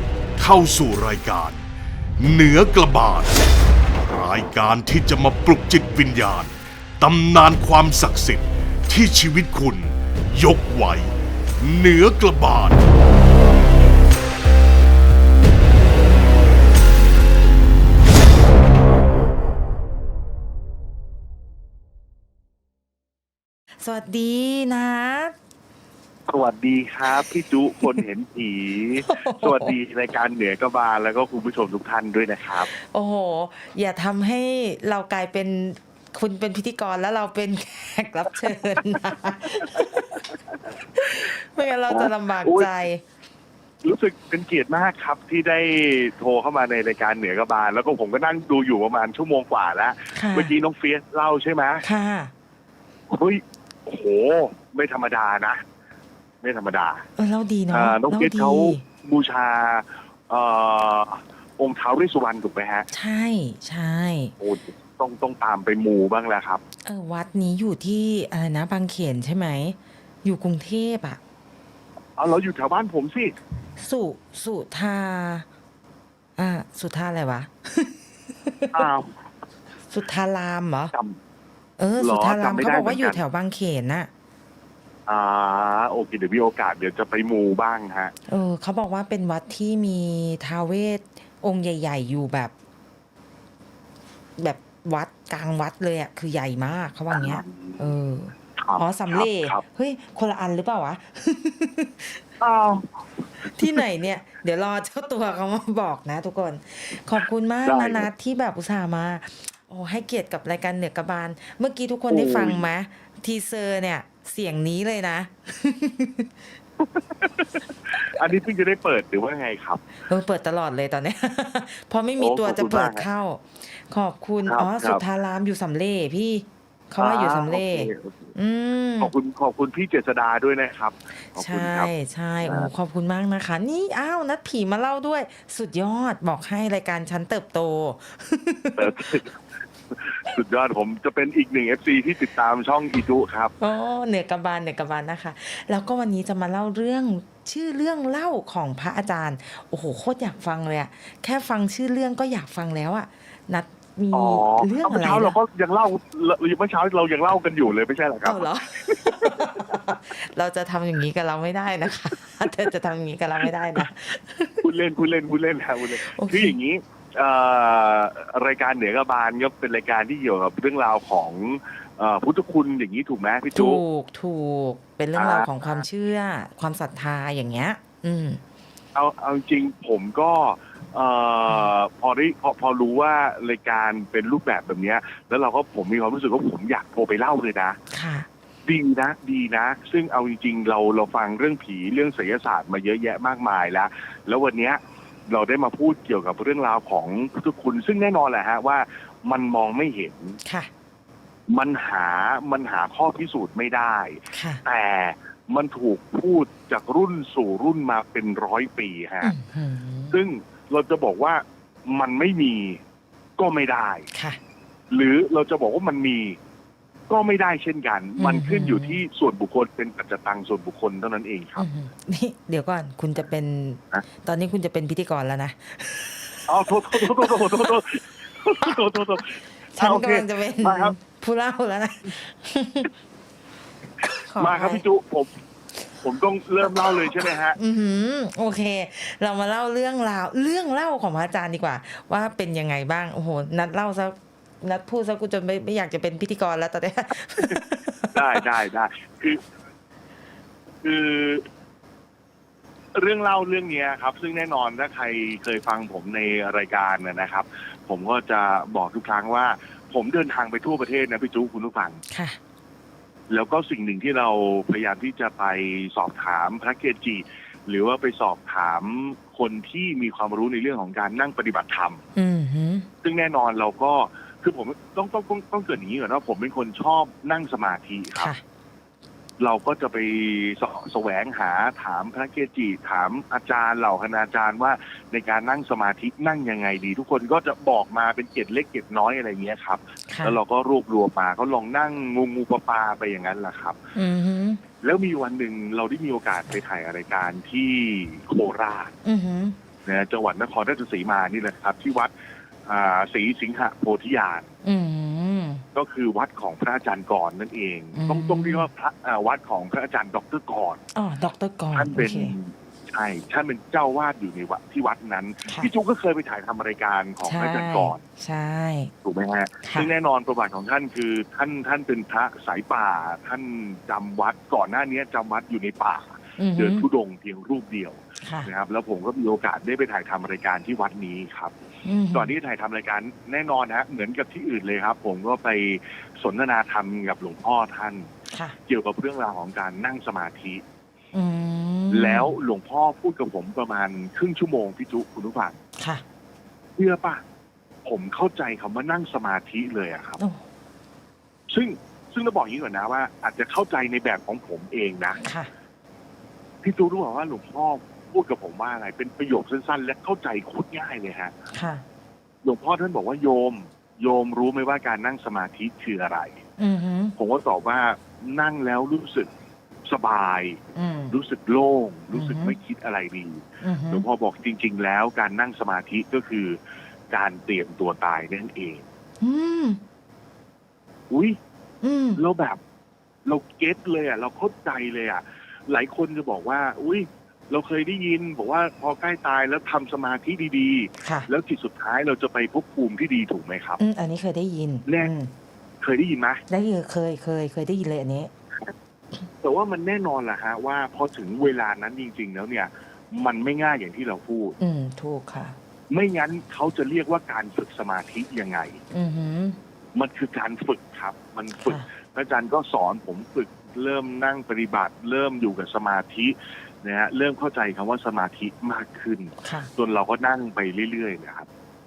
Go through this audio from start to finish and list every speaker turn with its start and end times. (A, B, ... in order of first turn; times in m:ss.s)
0:00.4-0:01.6 A
0:02.2-0:03.4 A
0:04.1-0:12.8 A
0:23.8-0:25.3 B
0:26.3-0:32.7 C
0:29.1-0:29.7 B
0:32.7-0:40.2 B
0:39.5-0:40.6 C
0:41.0-0:43.0 B
0:41.9-0:42.7 C
0:43.8-0:51.8 C
0:50.1-0:50.5 B
0:51.8-0:52.3 B
0:53.1-0:55.6 C
0:56.4-0:57.1 C
0:57.2-0:58.8 B
0:57.7-1:02.9 C
1:02.9-1:04.3 B
1:04.4-1:06.6 C
1:06.8-1:11.2 B
1:12.2-1:13.4 C
1:13.8-1:15.5 B
1:16.4-1:18.9 B
1:18.7-1:19.1 C
1:19.9-1:20.9 B
1:20.9-1:21.2 C
1:21.8-1:24.1 B
1:22.0-1:23.2 C
1:25.1-1:28.1 C
1:28.3-1:32.5 B
1:34.4-1:42.2 B
1:37.1-1:37.9 C
1:38.6-1:39.6 C
1:42.4-1:43.8 C
1:43.5-1:56.3 B
1:47.6-1:48.1 C
1:52.1-1:52.6 C
1:56.8-1:59.8 C
2:00.1-2:09.1 B
2:02.2-2:03.1 C
2:04.4-2:05.0 C
2:07.0-2:08.3 C
2:09.0-2:11.9 C
2:11.3-2:19.2 B
2:12.4-2:12.7 C
2:18.8-2:19.4 C
2:19.9-2:23.5 C
2:23.6-2:35.4 B
2:34.1-2:39.8 C
2:38.2-2:44.6 B
2:44.6-2:53.8 C
2:46.1-2:46.6 B
2:53.6-2:58.4 B
2:55.2-2:55.8 C
2:59.0-3:07.8 C
3:07.9-3:08.3 B
3:08.7-3:20.4 C
3:20.4-3:20.7 B
3:21.5-3:29.3 C
3:24.3-3:24.6 B
3:29.2-3:30.2 B
3:30.1-3:32.8 C
3:33.4-3:34.1 C
3:34.1-3:34.4 B
3:34.9-3:36.4 C
3:37.1-3:41.7 C
3:38.2-3:39.0 B
3:41.6-3:47.8 B
3:46.5-3:51.0 C
3:49.7-3:52.9 B
3:54.0-3:54.8 B
3:54.4-3:55.3 C
3:56.0-3:57.6 C
3:57.5-4:08.4 B
4:08.1-4:09.4 C
4:10.8-4:11.4 C
4:13.0-4:22.0 C
4:22.1-4:22.4 B
4:23.3-4:32.0 C
4:32.2-4:32.9 B
4:33.0-4:38.3 C
4:38.2-4:38.4 B
4:39.4-4:53.8 C
4:50.1-4:50.4 B
4:54.0-4:54.6 B
4:54.8-4:58.9 C
4:59.0-4:59.6 B
4:59.8-5:02.1 C
5:02.7-5:04.5 C
5:04.6-5:05.6 B
5:05.8-5:10.8 C
5:07.9-5:08.7 B
5:10.9-5:12.4 B
5:11.7-5:18.0 C
5:17.2-5:18.9 B
5:19.0-5:31.6 C
5:19.6-5:19.9 B
5:26.4-5:26.9 B
5:28.2-5:28.5 B
5:31.8-5:32.3 B
5:32.1-5:38.1 C
5:38.3-5:38.6 B
5:38.7-5:40.6 C
5:41.1-5:42.3 B
5:41.9-5:45.6 C
5:45.8-5:46.0 B
5:46.8-5:47.2 C
5:47.8-5:50.2 C
5:50.2-5:50.4 B
5:51.5-5:55.2 C
5:55.2-5:55.5 B
5:56.6-6:01.3 C
6:01.5-6:01.8 B
6:02.4-6:06.4 C
6:06.6-6:07.2 B
6:07.2-6:09.3 C
6:09.9-6:10.6 C
6:10.8-6:11.2 B
6:11.1-6:16.6 C
6:12.1-6:12.6 B
6:13.6-6:14.0 B
6:17.1-6:18.8 C
6:19.2-6:19.8 B
6:21.1-6:21.4 C
6:21.8-6:22.2 B
6:22.2-6:22.6 C
6:23.3-6:33.8 C
6:31.0-6:31.3 B
6:33.8-6:35.3 B
6:34.9-6:35.1 C
6:35.8-6:36.4 C
6:36.5-6:38.3 B
6:39.4-6:44.6 C
6:44.6-6:45.6 B
6:45.9-6:48.8 C
6:48.9-6:49.6 B
6:50.0-7:01.5 C
6:59.4-6:59.7 B